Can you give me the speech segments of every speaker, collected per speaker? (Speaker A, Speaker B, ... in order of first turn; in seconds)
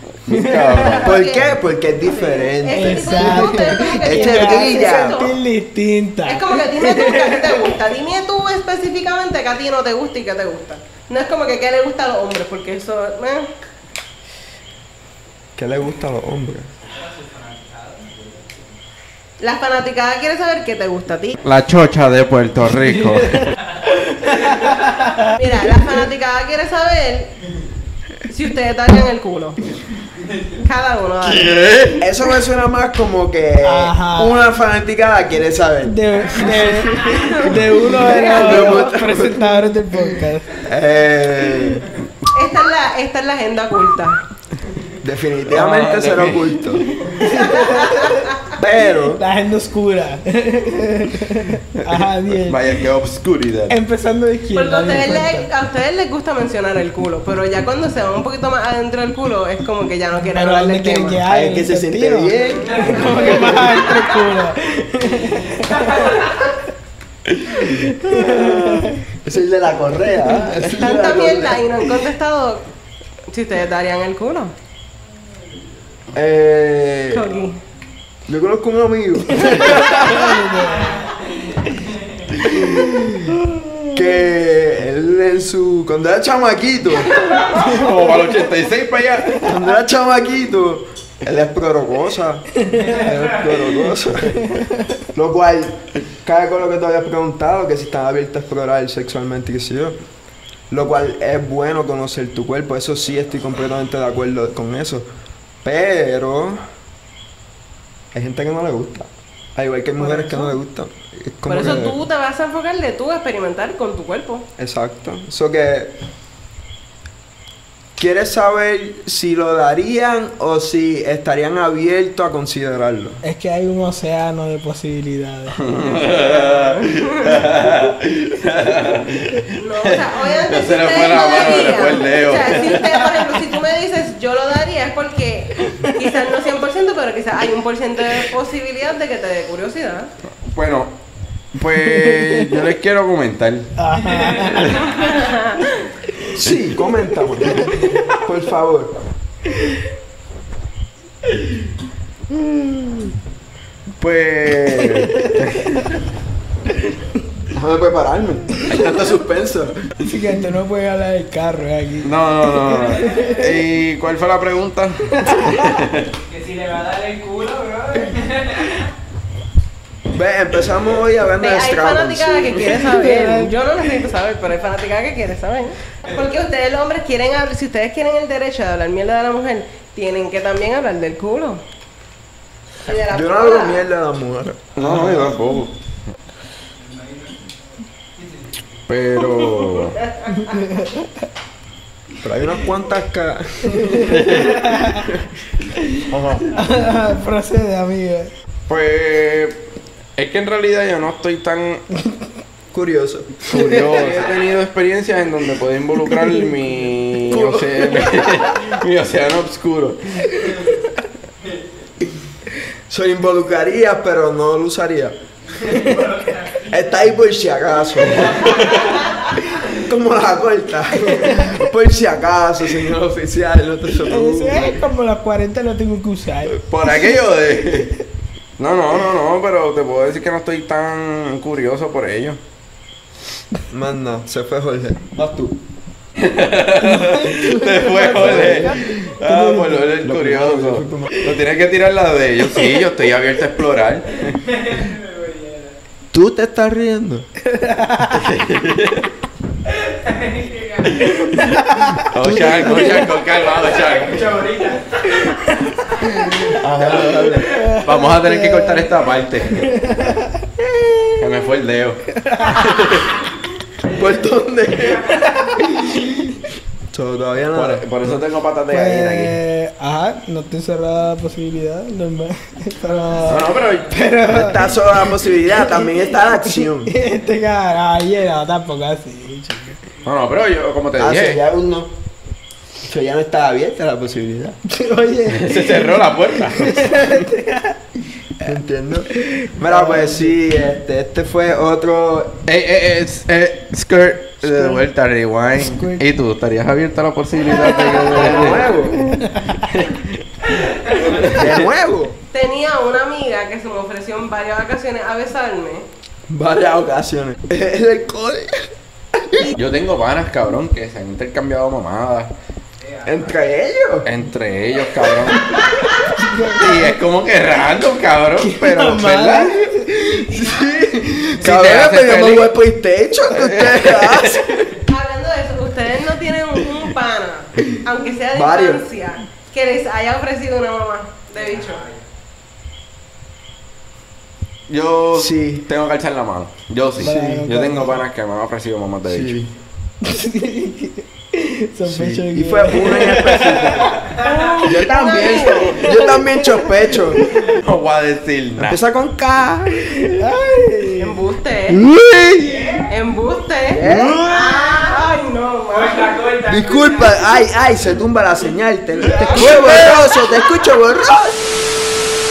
Speaker A: 0.3-1.2, 21.4-23.4, 31.2-32.1, 38.4-38.9, 45.5-47.1, 52.4-53.8, 87.5-89.5, 125.6-133.3, 140.4-141.0, 141.6-143.7, 154.0-155.8, 158.7-159.2, 162.0-166.1, 184.8-185.8, 188.9-190.0, 194.1-194.6, 198.7-199.7, 200.2-201.8, 203.4-210.5, 218.5-218.9, 226.7-228.0, 228.6-232.4, 236.2-244.3, 248.2-249.1, 252.1-254.5, 256.8-259.6, 261.2-262.0, 267.5-269.4, 273.3-273.9, 280.0-281.4, 285.3-286.9, 292.5-298.8, 301.0-301.6, 309.5-312.4, 314.1-315.6, 316.6-319.6, 321.4-322.5, 323.4-324.4, 334.7-339.3, 347.6-348.8, 359.0-360.6
Speaker B: 0.3-1.0, 2.7-7.5, 24.2-25.3, 33.6-34.4, 35.9-40.6, 47.1-48.2, 49.1-52.8, 53.7-55.5, 60.2-66.5, 67.6-69.0, 79.3-81.1, 82.5-83.9, 92.7-93.1, 93.8-94.8, 123.2-125.6, 141.9-142.5, 143.8-144.9, 160.1-163.6, 165.2-165.6, 172.9-173.5, 190.3-191.1, 194.2-195.1, 196.5-198.3, 203.6-204.2, 221.1-221.5, 224.1-227.0, 236.8-240.0, 247.5-248.3, 250.8-253.1, 255.2-256.6, 257.4-258.9, 259.6-260.3, 262.2-263.0, 268.7-275.9, 276.5-279.8, 284.7-287.8, 289.1-290.3, 294.4-294.8, 295.6-296.1, 297.6-298.3, 298.9-299.9, 316.1-317.0, 318.4-319.8, 337.0-338.0, 340.0-344.2, 345.2-347.6, 350.1-351.2
Speaker C: 1.0-5.4, 6.2-13.5, 19.4-21.4, 25.3-27.3, 28.3-29.6, 30.6-31.6, 37.1-38.8, 42.3-44.2, 47.2-48.0, 54.5-61.2, 62.7-64.0, 70.7-72.7, 73.3-74.5, 77.1-77.6, 110.0-110.6, 111.5-114.5, 126.1-127.4, 129.6-140.1, 144.9-145.4, 171.4-181.6, 182.8-183.9, 189.2-190.2, 297.7-298.7, 302.3-305.9, 324.9-331.9, 344.2-345.9, 351.0-351.8, 352.8-356.5
Speaker D: 1.0-5.2, 15.6-16.7, 32.0-36.8, 37.8-41.9, 45.0-46.9, 48.6-49.2, 61.3-63.9, 69.2-71.7, 76.1-77.3, 78.3-80.4, 82.6-83.1, 83.9-87.2, 89.4-94.5, 95.1-100.0, 100.7-105.1, 105.6-106.6, 108.1-112.0, 114.6-116.0, 118.0-123.2, 146.3-148.9, 157.5-159.7, 170.1-172.6, 182.9-185.1, 192.2-194.3, 196.1-196.5, 202.7-203.5, 207.3-208.2, 212.9-215.2, 215.7-224.8, 233.7-235.6, 238.0-238.9, 240.0-241.2, 246.1-247.3, 252.2-253.1, 256.4-257.6, 263.8-266.0, 266.9-268.2, 274.3-276.9, 281.0-281.9, 282.9-284.6, 288.4-292.4, 298.1-299.1, 301.2-302.2, 306.3-309.5, 313.0-314.1, 319.7-324.7, 328.3-328.8, 335.1-335.7, 337.0-337.4, 339.1-339.5, 341.9-344.1, 344.6-347.2, 348.6-350.0, 351.9-352.7, 353.7-354.2, 356.4-361.4
Speaker E: 17.3-17.9, 166.3-168.7, 244.7-245.7, 250.1-250.7, 254.0-255.1